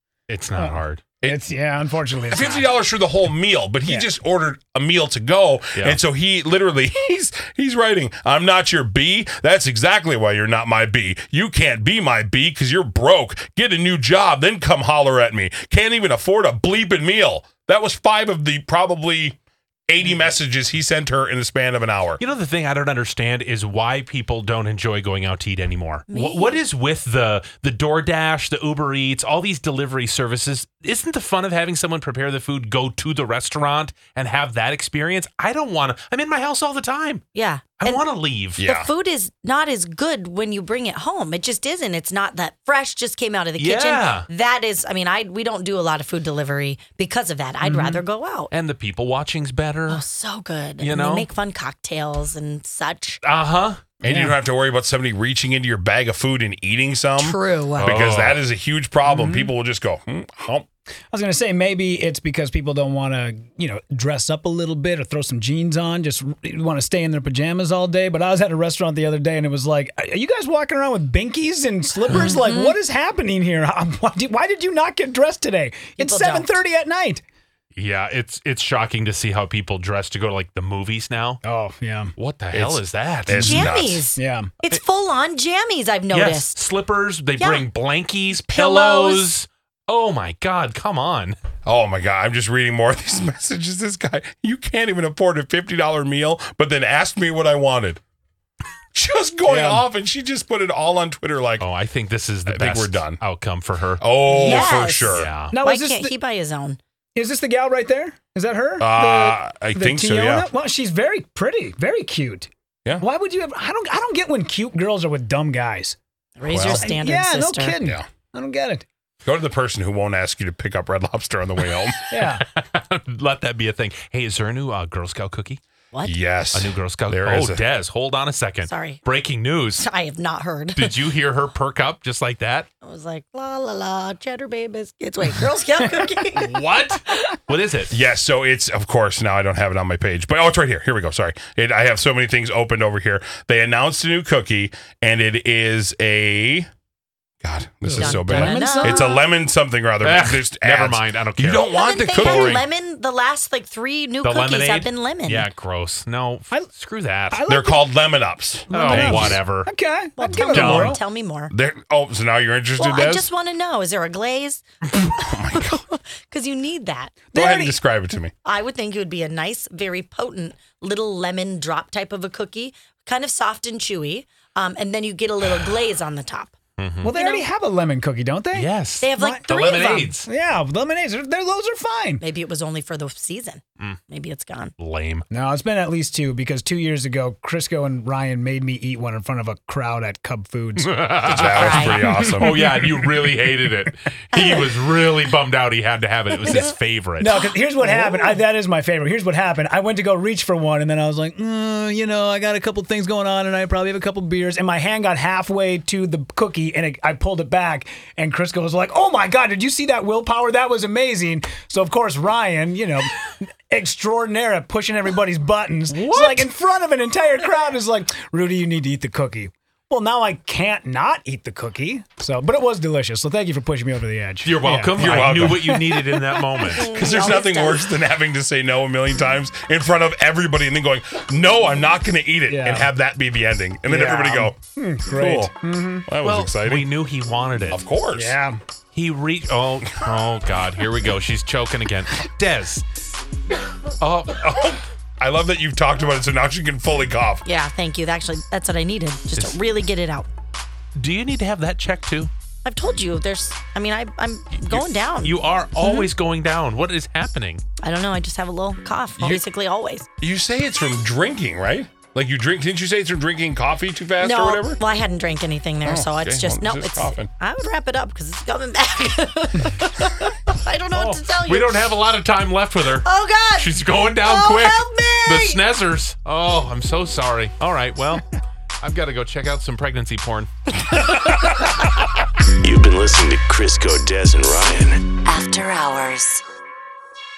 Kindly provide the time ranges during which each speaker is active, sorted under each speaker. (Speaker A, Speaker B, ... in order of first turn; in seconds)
Speaker A: 0.3-1.1, 22.2-37.2, 37.8-38.6, 43.6-44.3, 48.5-50.0, 50.8-51.3, 53.2-53.8, 57.8-58.4, 77.7-81.4, 82.2-83.8, 86.1-91.3, 101.6-105.5, 121.6-125.6, 126.5-129.8, 130.8-132.7, 136.3-138.0, 148.0-149.1, 150.0-152.6, 154.2-157.4, 158.7-159.7, 160.5-161.0, 176.8-177.1, 178.5-180.3, 184.8-185.2, 190.8-197.4, 215.9-216.5, 224.4-226.9, 236.2-237.8, 238.9-242.8, 244.0-244.5, 250.9-252.3, 254.7-257.6, 270.9-278.3, 278.8-281.2
Speaker B: 0.5-2.8, 47.6-48.0, 54.0-54.4, 59.0-59.5, 61.1-77.2, 81.4-82.1, 84.2-84.5, 99.4-99.9, 104.3-104.6, 105.5-106.1, 107.1-116.0, 116.6-118.8, 122.1-122.4, 147.8-149.0, 157.3-161.0, 167.3-167.8, 177.0-182.2, 185.3-192.9, 197.2-226.4, 232.5-232.9, 233.8-236.1, 238.1-238.6
Speaker C: 2.3-19.4, 19.9-22.2, 38.6-38.9, 54.0-60.6, 82.5-84.0, 91.6-98.0, 98.9-101.7, 102.5-103.2, 104.0-105.3, 108.8-110.5, 116.5-117.0, 119.2-122.0, 126.0-127.6, 137.9-146.7, 147.4-152.7, 157.5-159.4, 161.5-163.3, 165.3-165.8, 167.3-168.3, 191.2-192.6, 225.0-225.7, 226.8-234.6, 235.1-235.5, 236.1-236.9, 237.7-238.3, 244.4-247.4, 259.2-259.4, 260.2-264.8, 265.8-267.3
Speaker D: 26.1-26.6, 37.3-38.0, 38.6-48.5, 49.9-53.2, 57.1-57.9, 72.1-72.8, 76.0-76.6, 83.4-86.6, 87.4-87.7, 88.4-89.3, 104.3-106.8, 116.4-117.8, 125.9-126.2, 128.6-129.0, 129.8-131.0, 132.8-137.3, 148.0-149.0, 151.6-155.5, 160.2-161.5, 162.8-167.3, 168.4-176.5, 177.0-177.5, 179.0-179.9, 182.2-184.7, 191.5-192.0, 226.6-228.0, 247.4-250.3, 252.6-256.1, 257.8-260.1, 264.2-271.9, 272.9-275.6
Speaker E: 282.6-285.0